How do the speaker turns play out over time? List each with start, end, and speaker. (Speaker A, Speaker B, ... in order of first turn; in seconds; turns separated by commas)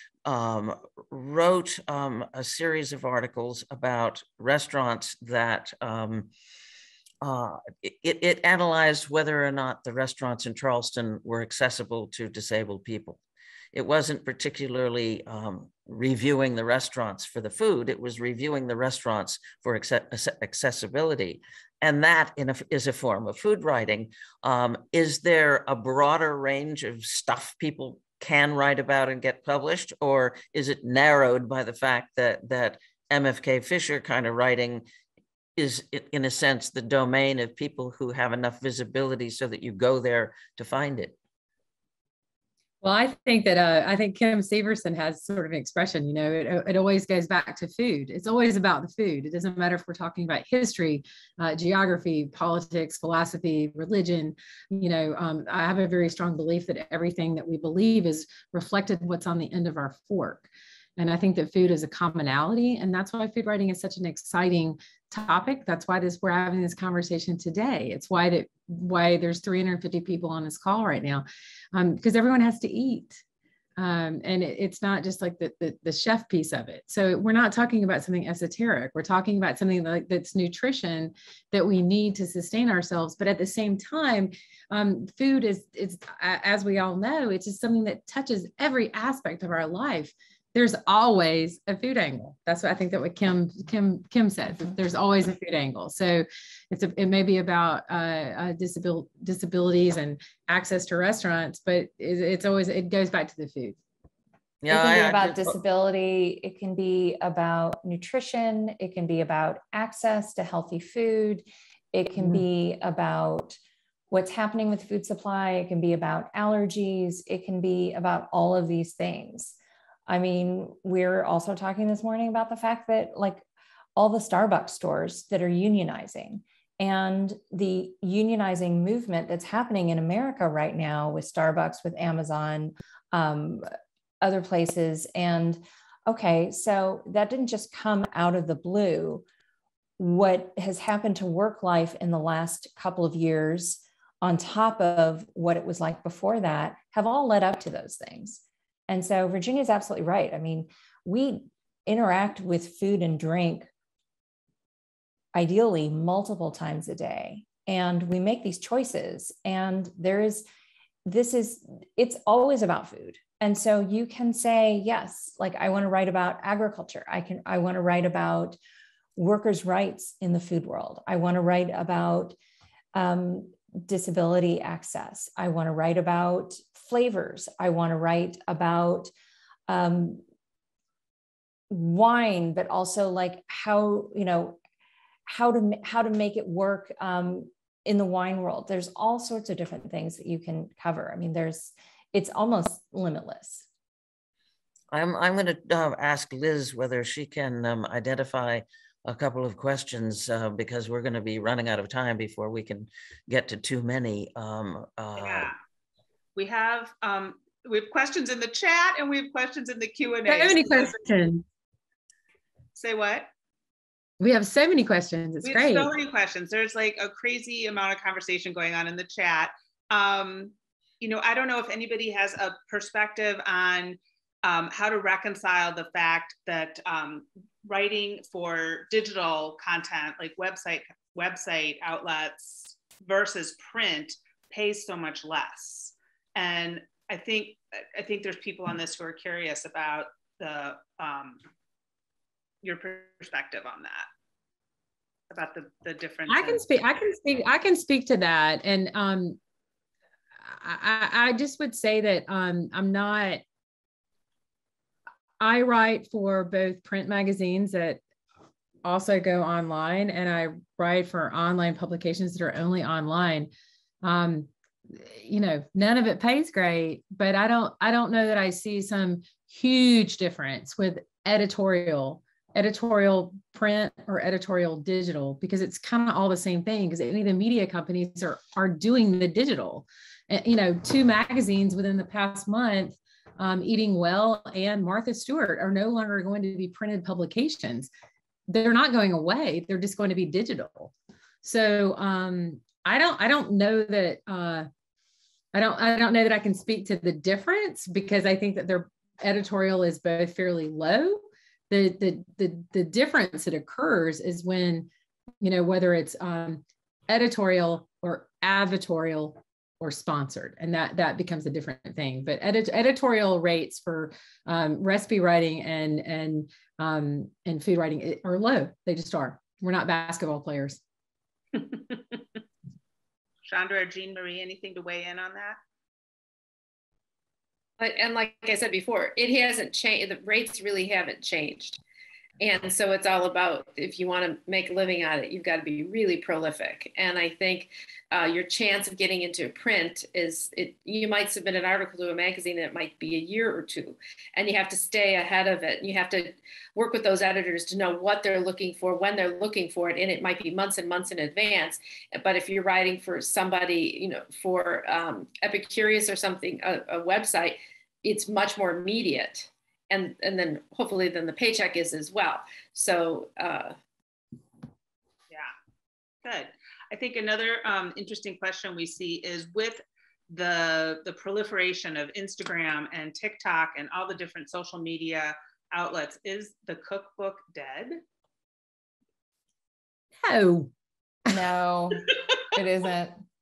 Speaker A: 0.3-6.3, Speaker A: 7.2-13.2, Speaker A: 13.7-34.8, Speaker A: 35.6-41.1, Speaker B: 42.8-60.5, Speaker B: 61.0-73.2, Speaker B: 73.8-103.8, Speaker A: 104.6-105.6, Speaker C: 104.7-113.6, Speaker C: 114.1-119.5, Speaker C: 120.1-123.5, Speaker C: 124.0-133.7, Speaker C: 134.2-139.2, Speaker C: 140.0-153.7, Speaker C: 155.3-160.4, Speaker C: 161.1-168.6, Speaker C: 169.2-172.4, Speaker C: 172.9-179.1, Speaker C: 179.7-180.2, Speaker C: 181.7-184.6, Speaker C: 185.3-193.7, Speaker A: 194.9-205.5, Speaker D: 205.2-205.6, Speaker D: 206.4-210.9, Speaker B: 210.3-211.4, Speaker D: 212.8-213.3, Speaker B: 214.2-215.9, Speaker D: 215.4-241.4, Speaker D: 242.6-244.1, Speaker D: 245.3-246.6, Speaker B: 246.3-249.4, Speaker B: 250.5-253.4, Speaker B: 255.4-258.0, Speaker B: 258.8-263.5, Speaker B: 264.0-287.9, Speaker B: 288.5-290.9, Speaker B: 291.4-294.7, Speaker B: 295.5-304.9, Speaker B: 305.4-320.8, Speaker D: 321.5-322.2, Speaker D: 323.5-325.6, Speaker E: 327.8-331.8, Speaker E: 332.4-363.8, Speaker D: 366.2-378.0, Speaker B: 380.2-380.7, Speaker C: 381.3-383.2